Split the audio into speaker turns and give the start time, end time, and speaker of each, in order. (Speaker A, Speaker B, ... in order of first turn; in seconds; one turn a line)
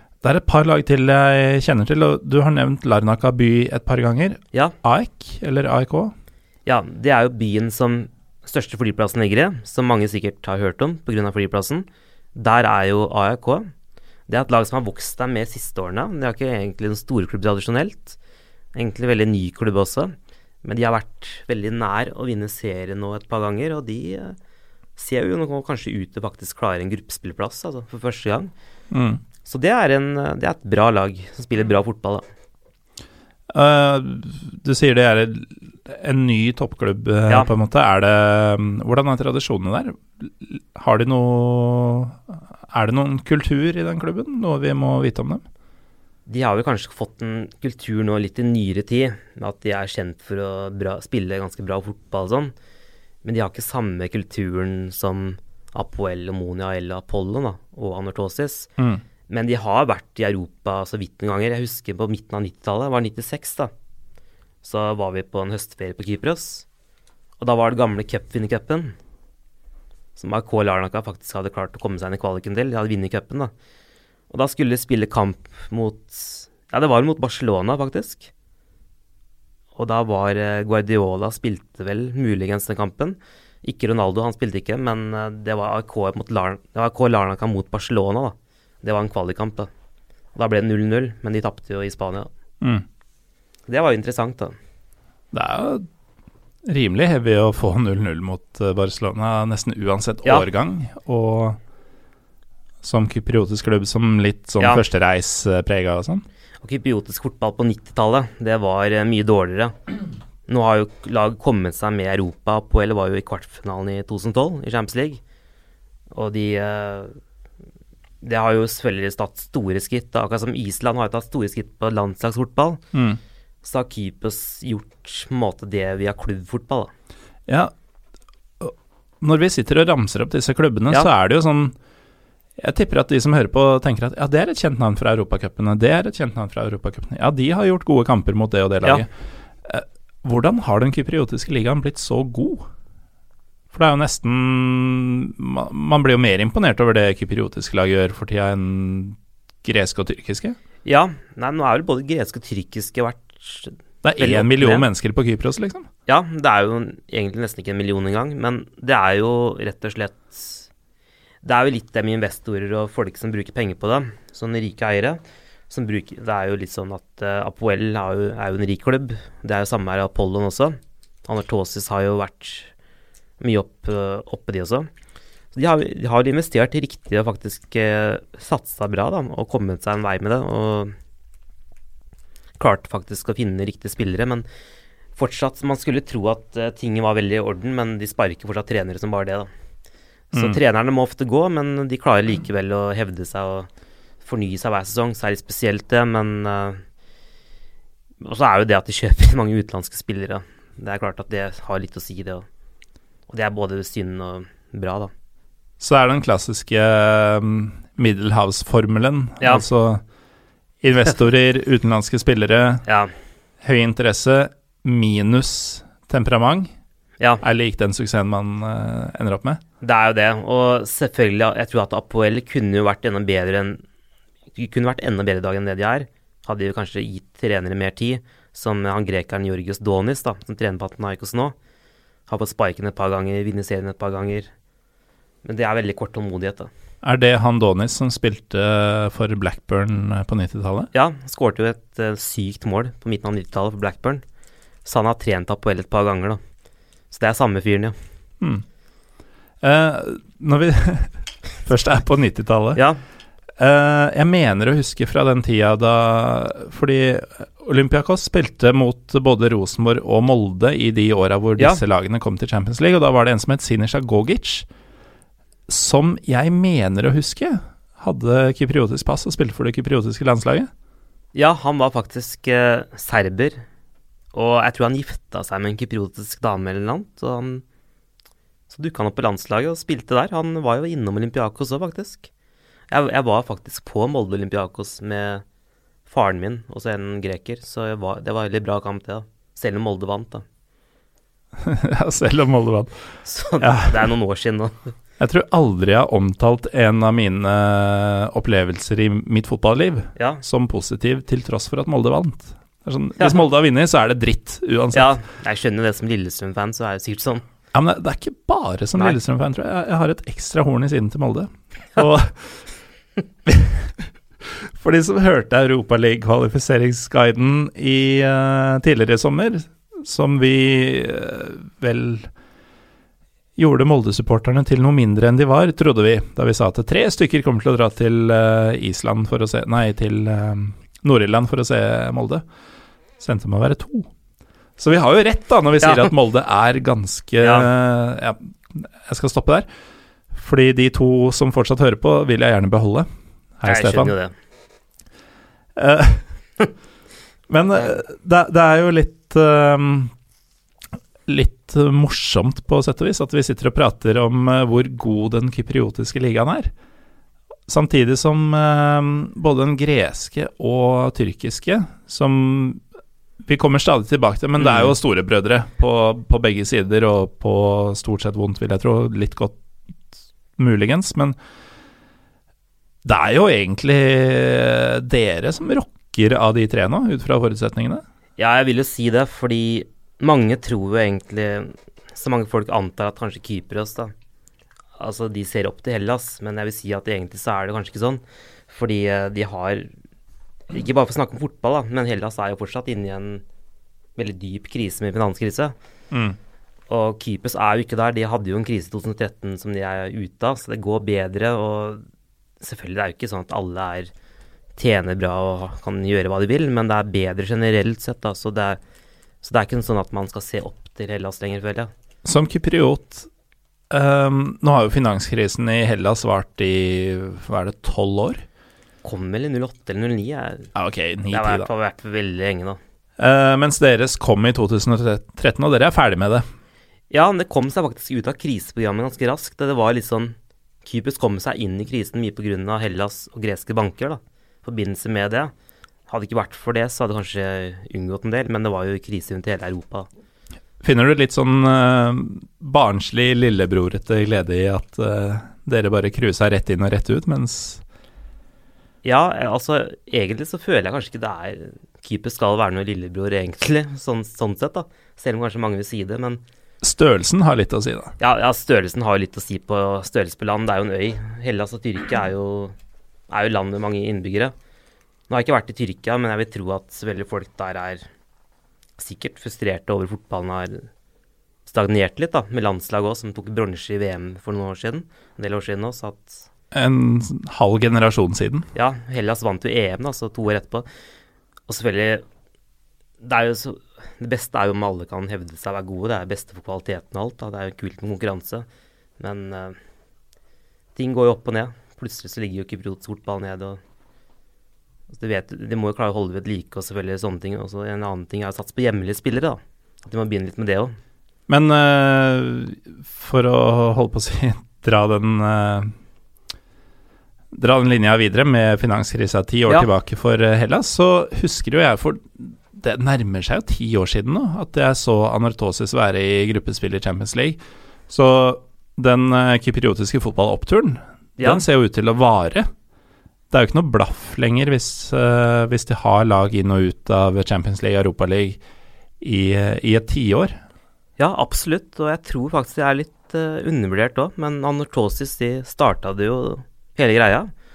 Speaker A: 0.2-6.1
Speaker B: 6.7-13.7
Speaker B: 14.3-18.2
Speaker B: 18.8-24.4
Speaker B: 25.0-28.5
Speaker A: 28.9-29.2
Speaker B: 29.4-32.2
Speaker A: 33.5-45.4
Speaker B: 46.3-52.5
Speaker B: 53.2-58.7
Speaker B: 59.3-63.7
Speaker B: 64.6-66.7
Speaker B: 67.4-69.0
Speaker B: 70.2-73.5
Speaker B: 74.3-78.3
Speaker B: 79.8-89.7
Speaker B: 90.3-92.3
Speaker B: 93.7-94.5
Speaker A: 95.3-95.9
Speaker A: 96.7-101.6
Speaker A: 102.8-106.2
Speaker B: 106.6-109.8
Speaker B: 110.5-115.2
Speaker B: 116.1-117.2
Speaker B: 118.2-122.8
Speaker A: 122.9-123.2
Speaker B: 123.6-126.9
Speaker A: 127.5-127.7
Speaker A: 128.6-131.8
Speaker A: 132.6-139.1
Speaker A: 139.6-142.7
Speaker A: 143.7-150.6
Speaker B: 150.8-154.9
Speaker A: 154.0-155.9
Speaker B: 156.1-160.7
Speaker B: 161.4-172.7
Speaker B: 173.4-174.9
Speaker B: 175.5-180.9
Speaker B: 182.6-184.5
Speaker B: 185.2-189.5
Speaker B: 190.3-193.7
Speaker B: 194.2-196.8
Speaker B: 198.2-202.5
Speaker B: 203.3-205.1
Speaker A: 205.8-210.0
Speaker A: 210.8-212.8
Speaker B: 212.9-213.1
Speaker A: 213.6-216.7
Speaker A: 217.4-219.6
Speaker B: 219.8-223.8
Speaker B: 224.6-231.6
Speaker B: 232.3-234.5
Speaker B: 235.4-236.7
Speaker A: 237.0-240.9
Speaker B: 240.9-244.2
Speaker B: 244.8-246.4
Speaker B: 247.1-248.0
Speaker A: 249.6-252.8
Speaker B: 252.8-253.0
Speaker A: 253.6-264.7
Speaker A: 265.7-270.7
Speaker B: 271.4-273.6
Speaker B: 274.3-277.6
Speaker B: 278.7-282.3
Speaker B: 282.9-285.4
Speaker B: 286.1-290.4
Speaker A: 291.6-292.9
Speaker B: 293.3-294.9
Speaker A: 293.6-294.0
Speaker A: 295.2-305.2
Speaker B: 300.2-300.4
Speaker B: 304.9-307.4
Speaker A: 307.7-312.6
Speaker A: 313.5-322.3
Speaker A: 323.6-332.4
Speaker A: 333.2-334.1
Speaker A: 334.8-339.7
Speaker B: 335.8-336.1
Speaker B: 337.4-337.7
Speaker A: 340.3-343.1
Speaker A: 343.6-344.1
Speaker B: 343.6-344.3
Speaker A: 345.8-346.3
Speaker A: 347.5-350.1
Speaker A: 351.3-356.7
Speaker A: 357.7-362.8
Speaker A: 363.4-369.6
Speaker B: 364.6-364.9
Speaker A: 370.6-371.4
Speaker A: 373.0-378.0
Speaker B: 378.4-384.1
Speaker B: 385.0-389.9
Speaker B: 390.7-393.4
Speaker B: 394.2-395.8
Speaker A: 396.1-396.4
Speaker B: 396.9-402.0
Speaker B: 402.6-404.1
Speaker B: 404.8-408.8
Speaker B: 409.4-411.9
Speaker A: 412.2-413.3
Speaker A: 413.9-418.4
Speaker B: 419.0-420.7
Speaker A: 420.8-421.7
Speaker B: 421.3-422.8
Speaker A: 423.2-426.5
Speaker B: 427.1-435.5
Speaker B: 436.1-440.1
Speaker A: 440.8-447.8
Speaker B: 449.0-456.4
Speaker A: 456.8-458.1
Speaker B: 458.2-462.8
Speaker B: 463.3-464.5
Speaker B: 465.3-468.1
Speaker B: 469.0-470.9
Speaker B: 471.7-476.4
Speaker A: 476.7-478.7
Speaker B: 478.8-480.9
Speaker B: 481.7-482.2
Speaker B: 483.2-488.7
Speaker B: 489.2-489.8
Speaker B: 491.0-493.8
Speaker B: 495.1-501.0
Speaker A: 501.5-505.9
Speaker A: 507.5-522.7
Speaker B: 521.4-521.6
Speaker A: 523.5-528.6
Speaker A: 529.2-530.6
Speaker B: 531.2-537.5